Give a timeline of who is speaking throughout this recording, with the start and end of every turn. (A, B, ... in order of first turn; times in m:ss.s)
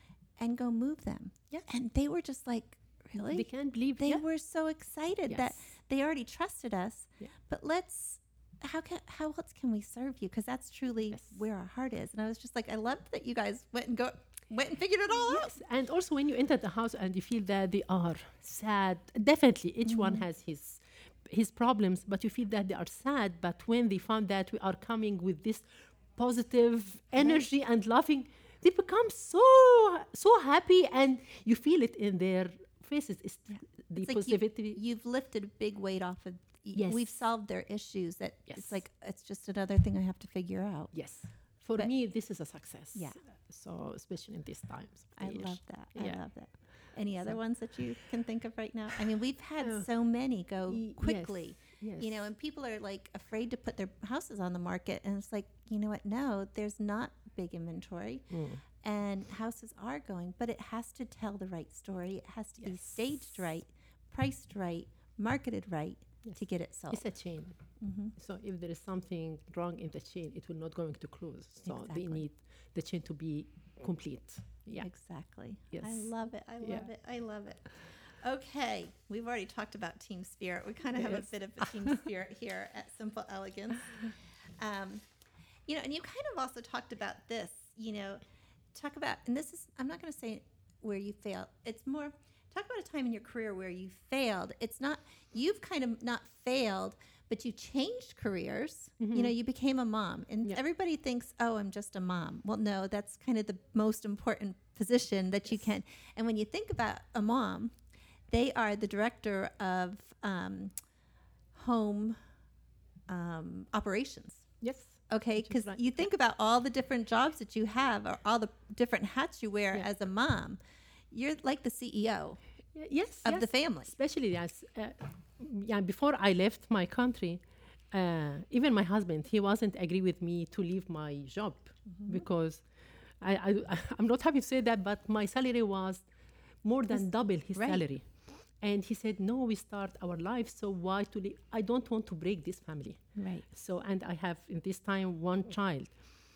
0:00.4-0:15.5 A
0:03.3-0:04.2 B
0:05.3-0:05.6 B
0:15.1-0:34.8 B
0:19.9-0:20.2 A
0:33.5-0:41.9 A
0:36.7-0:37.2 B
0:38.5-0:38.8 B
0:40.9-0:46.6 B
0:42.9-0:43.2 A
0:45.2-1:07.0 A
0:49.6-0:49.9 B
0:50.7-0:52.3 B
0:58.3-0:58.6 B
1:02.6-1:03.2 B
1:06.9-1:07.6 B
1:07.8-1:08.1 A
1:08.2-1:14.9 B
1:11.6-1:12.2 A
1:14.8-1:25.0 A
1:15.7-1:16.9 B
1:21.0-1:22.0 B
1:25.7-1:28.2 A
1:28.7-1:47.7 A
1:39.0-1:39.3 B
1:48.3-1:50.7 A
1:51.5-1:52.2 A
1:53.1-1:54.5 A
1:54.6-1:56.0 B
1:55.1-2:00.6 A
2:01.1-2:02.4 A
2:02.8-2:16.1 B
2:03.2-2:03.9 A
2:11.9-2:12.2 A
2:16.6-2:26.0 B
2:16.9-2:17.8 A
2:23.2-2:23.5 A